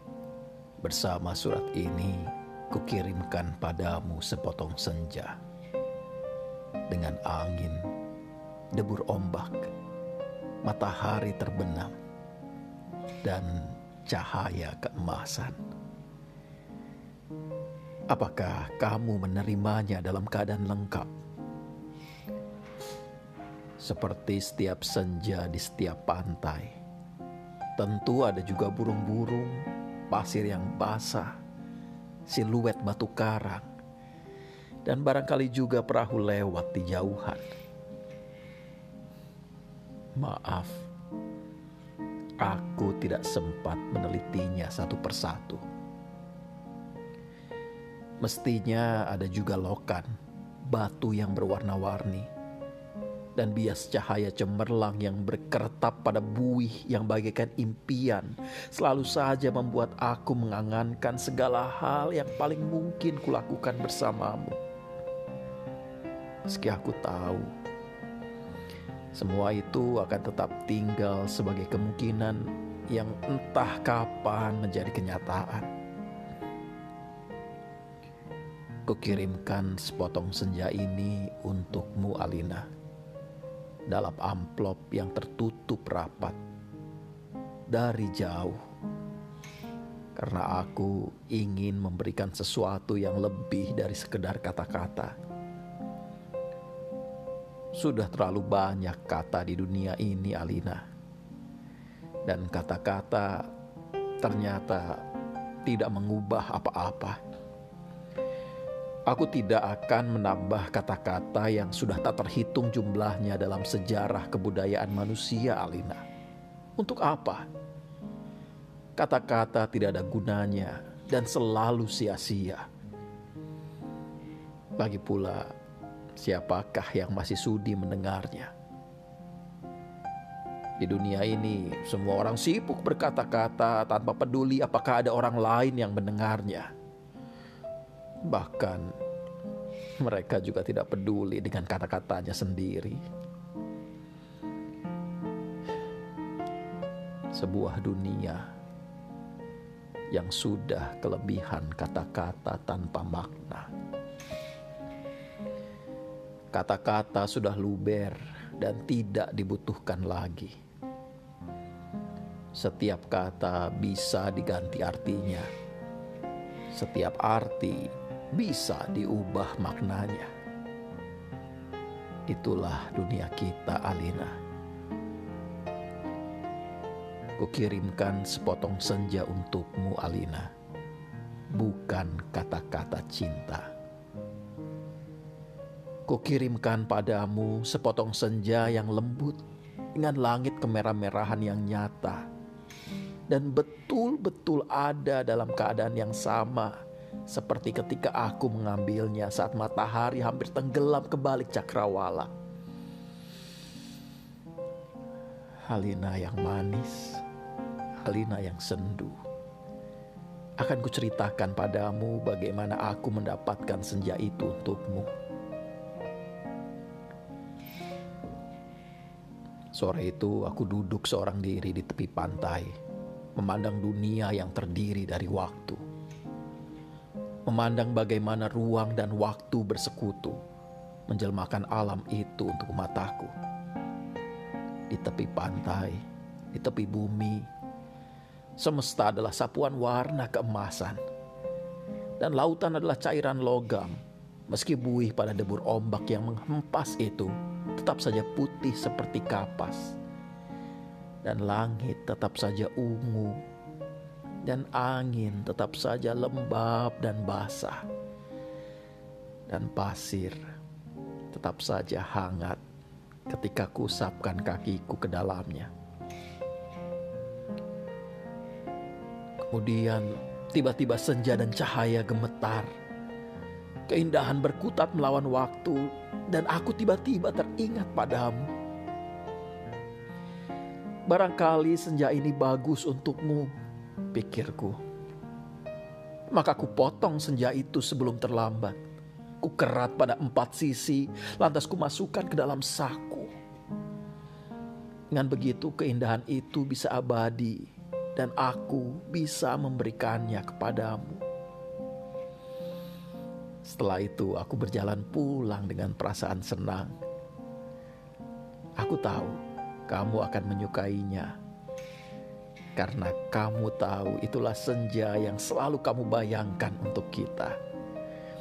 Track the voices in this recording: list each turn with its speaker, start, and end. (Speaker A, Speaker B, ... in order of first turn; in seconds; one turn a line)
Speaker A: 0.8-5.4
Speaker A: 6.9-7.9
Speaker A: 8.7-9.7
Speaker A: 10.6-11.9
Speaker A: 13.2-15.6
Speaker A: 18.1-21.1
Speaker A: 23.8-26.8
Speaker A: 27.8-31.4
Speaker A: 32.3-33.7
Speaker A: 34.8-37.5
Speaker A: 40.1-40.9
Speaker A: 42.4-45.6
Speaker A: 48.2-50.1
Speaker A: 50.7-52.3
Speaker A: 53.4-64.6
Speaker A: 66.5-67.5
Speaker A: 69.1-75.7
Speaker A: 78.8-82.7
Speaker A: 83.9-86.4
Speaker A: 87.7-88.6
Speaker A: 90.2-95.1
Speaker A: 97.7-100.8
Speaker A: 102.2-103.5
Speaker A: 104.2-105.0
Speaker A: 105.7-107.2
Speaker A: 109.1-116.0
Speaker A: 116.8-117.5
Speaker A: 119.0-122.7
Speaker A: 124.8-125.5
Speaker A: 126.2-128.5
Speaker A: 130.8-136.7
Speaker A: 138.2-138.9
Speaker A: 140.0-143.0
Speaker A: 147.3-148.4
Speaker A: 150.1-153.7
Speaker A: 156.5-160.5
Speaker A: 162.5-165.5
Speaker A: 166.7-170.3
Speaker A: 172.3-174.4
Speaker A: 177.4-180.5
Speaker A: 181.5-183.7
Speaker A: 186.1-189.4
Speaker A: 189.9-192.2
Speaker A: 193.3-196.8
Speaker A: 197.3-202.3
Speaker A: 205.7-207.2
Speaker A: 208.0-209.2
Speaker A: 210.6-215.1
Speaker A: 219.7-222.7
Speaker A: 223.3-225.8
Speaker A: 227.4-230.4
Speaker A: 231.1-233.3
Speaker A: 234.9-237.5
Speaker A: 238.6-241.0
Speaker A: 242.2-250.0
Speaker A: 251.2-253.4
Speaker A: 254.4-257.8
Speaker A: 259.5-260.4
Speaker A: 261.3-262.6
Speaker A: 263.3-265.7
Speaker A: 269.5-272.7
Speaker A: 273.9-278.5
Speaker A: 281.1-283.5
Speaker A: 284.1-284.8
Speaker A: 286.3-288.8
Speaker A: 289.4-293.3
Speaker A: 295.1-301.2
Speaker A: 303.6-306.9
Speaker A: 308.8-311.4
Speaker A: 312.8-317.6